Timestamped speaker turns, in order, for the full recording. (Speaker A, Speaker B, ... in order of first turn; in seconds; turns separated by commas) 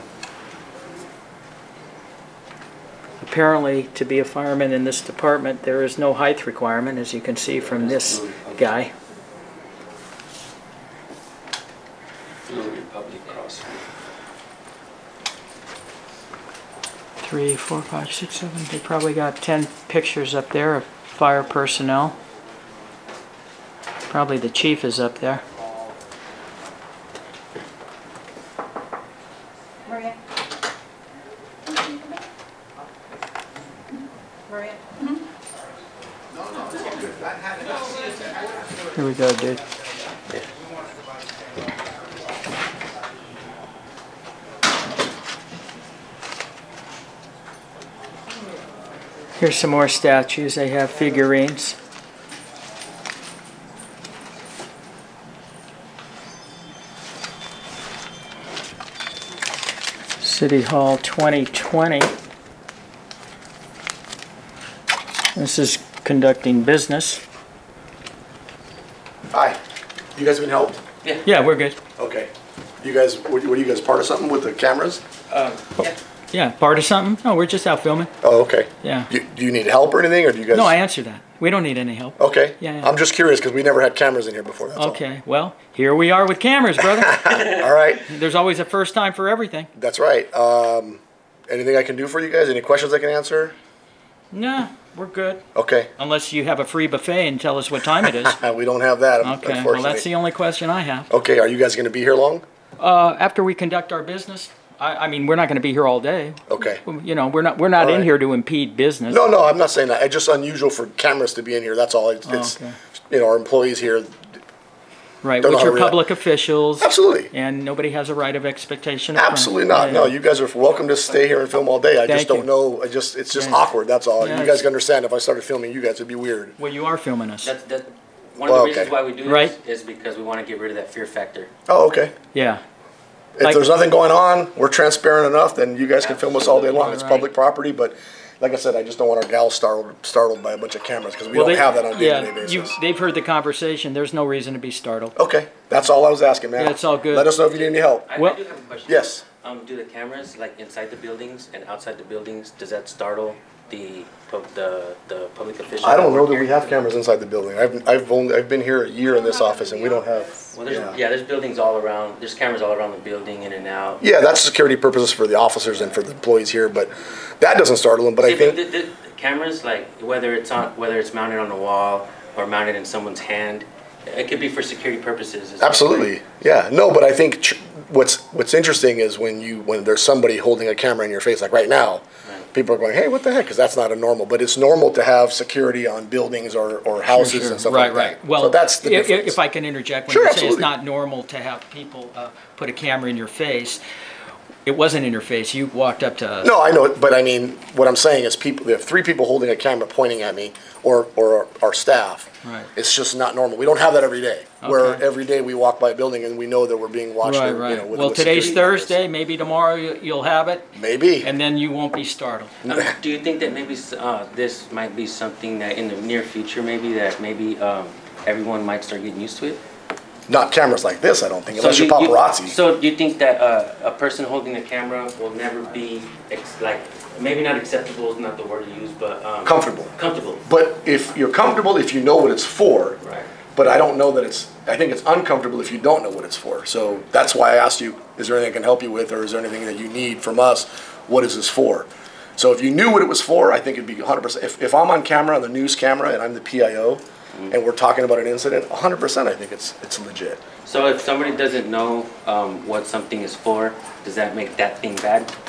Speaker A: 3.2-8.9, Speaker B: 7.5-8.7, Speaker B: 12.4-13.8, Speaker A: 17.2-22.1, Speaker A: 24.1-25.4, Speaker C: 29.9-30.1, Speaker C: 34.5-35.2, Speaker C: 36.7-37.0, Speaker A: 38.9-39.6, Speaker A: 49.4-51.8, Speaker A: 60.2-62.1, Speaker A: 65.3-67.2, Speaker D: 69.3-69.6, Speaker D: 70.1-70.8, Speaker A: 71.2-71.8, Speaker D: 72.0-72.3, Speaker D: 72.8-75.0, Speaker B: 75.3-75.9, Speaker A: 75.8-78.1, Speaker D: 78.2-80.8, Speaker A: 78.8-79.1, Speaker A: 80.5-82.9, Speaker D: 82.2-85.0, Speaker A: 84.7-87.5, Speaker D: 86.8-88.1, Speaker A: 88.0-89.7, Speaker D: 89.7-93.5, Speaker A: 94.3-95.4, Speaker D: 95.5-95.9, Speaker A: 96.0-98.4, Speaker D: 98.0-100.1, Speaker A: 99.2-101.1, Speaker D: 101.1-102.4, Speaker A: 102.8-109.2, Speaker D: 106.5-106.8, Speaker D: 107.8-108.1, Speaker D: 109.1-112.6, Speaker A: 112.2-112.8, Speaker D: 113.1-114.2, Speaker A: 115.2-120.1, Speaker D: 115.4-116.0, Speaker D: 116.8-117.3, Speaker D: 119.1-126.6, Speaker A: 122.0-122.5, Speaker A: 123.3-123.6, Speaker A: 124.2-124.7, Speaker A: 126.6-127.5, Speaker B: 127.4-131.5, Speaker D: 128.4-128.9, Speaker A: 129.2-129.6, Speaker D: 131.7-132.1, Speaker A: 132.3-132.6, Speaker D: 133.3-142.8, Speaker B: 136.0-137.0, Speaker A: 136.8-137.3, Speaker A: 141.3-145.1, Speaker D: 145.2-148.1, Speaker A: 146.6-147.3, Speaker B: 147.8-156.8, Speaker D: 148.9-149.2, Speaker D: 155.8-161.0, Speaker C: 159.1-160.2, Speaker B: 160.5-164.0, Speaker D: 164.0-168.7, Speaker B: 168.2-176.1, Speaker D: 175.6-189.4, Speaker A: 187.1-193.8, Speaker D: 190.1-190.7, Speaker A: 194.6-196.5, Speaker D: 196.4-209.0, Speaker A: 202.4-202.7, Speaker A: 204.6-205.0, Speaker A: 207.2-210.7, Speaker D: 210.7-211.3, Speaker A: 211.2-212.5, Speaker B: 212.6-219.6, Speaker D: 220.3-222.6, Speaker B: 221.5-230.4, Speaker D: 229.4-229.9, Speaker D: 230.4-233.0, Speaker B: 233.0-233.3, Speaker D: 233.6-250.4, Speaker B: 250.6-255.3